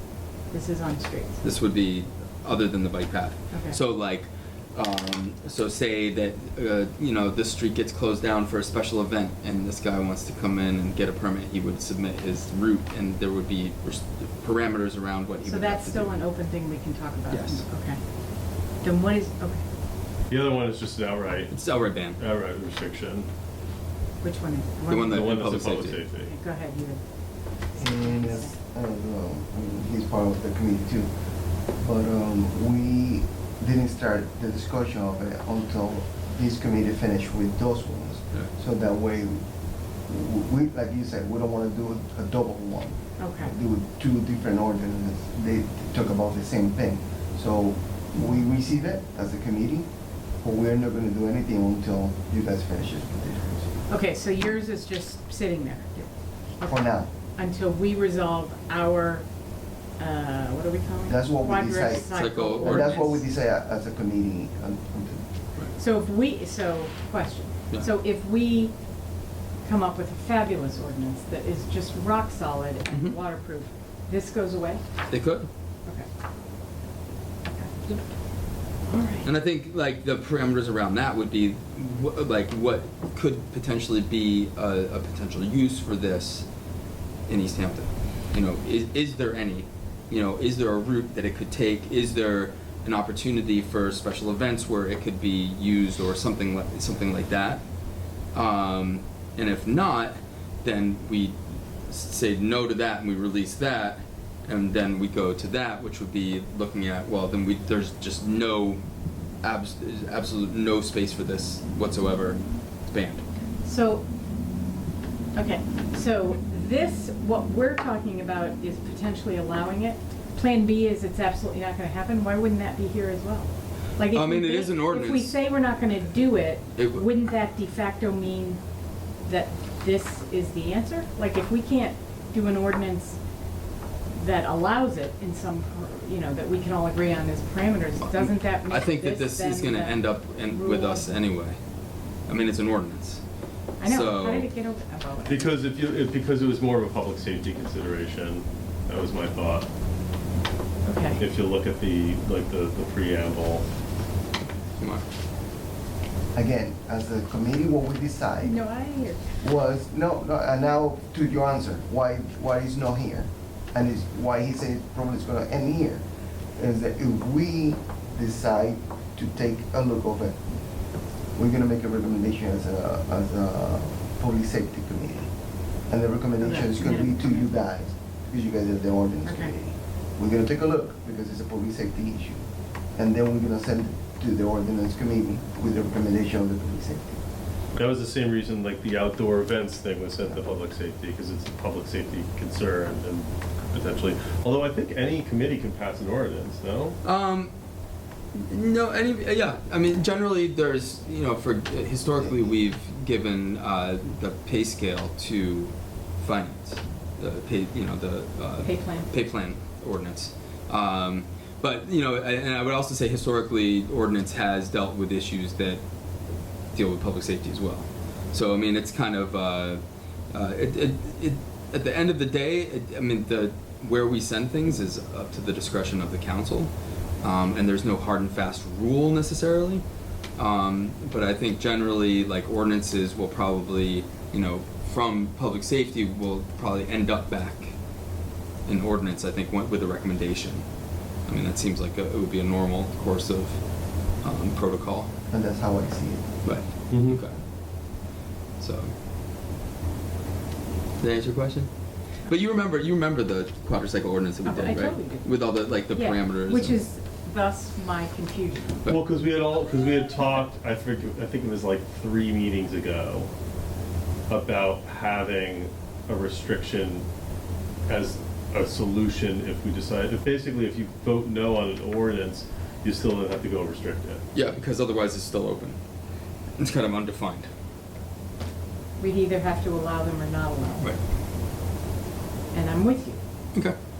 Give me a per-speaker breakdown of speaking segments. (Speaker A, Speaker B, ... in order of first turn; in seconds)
Speaker A: 0.5-1.4, 3.5-3.8, 15.4-18.0, 18.8-19.6, 24.2-25.3, 26.2-27.0, 27.7-28.6, 43.2-43.5, 53.9-59.2, 60.0-63.2, 65.8-68.7, 69.6-74.8, 78.9-79.3, 113.6-114.0, 115.3-128.6, 129.2-133.2, 134.2-141.2, 143.8-145.5, 150.8-151.2, 158.4-159.2, 176.4-177.5, 179.2-179.5, 208.6-209.1, 254.4-258.8, 279.0-280.9, 282.5-283.2
Speaker B: 1.4-16.2, 17.3-17.6, 21.5-22.2, 24.9-26.0, 62.1-63.2, 75.1-75.5, 79.2-86.5, 87.3-97.6, 98.3-108.8, 109.4-113.2, 124.1-125.4, 126.8-127.1, 138.0-141.6, 142.3-143.2, 143.8-144.5, 197.0-197.5, 198.3-215.8, 216.7-229.8, 230.4-237.7, 238.7-240.6, 241.3-243.6, 244.2-245.1, 246.4-247.4, 248.6-248.9, 251.0-251.7, 252.2-256.8, 274.3-275.8, 276.6-277.5
Speaker C: 20.3-21.5, 22.2-23.3, 25.1-26.3, 145.2-149.7, 151.2-153.7, 187.7-197.0, 246.9-247.2, 258.9-263.3, 264.3-267.1, 267.9-274.2
Speaker D: 27.8-31.1, 31.8-39.4, 40.1-49.9, 50.4-53.8, 56.6-57.1, 61.1-65.2, 156.3-158.6, 159.4-166.0, 166.6-170.4, 171.3-175.3, 175.9-182.4, 182.9-187.2, 245.3-246.3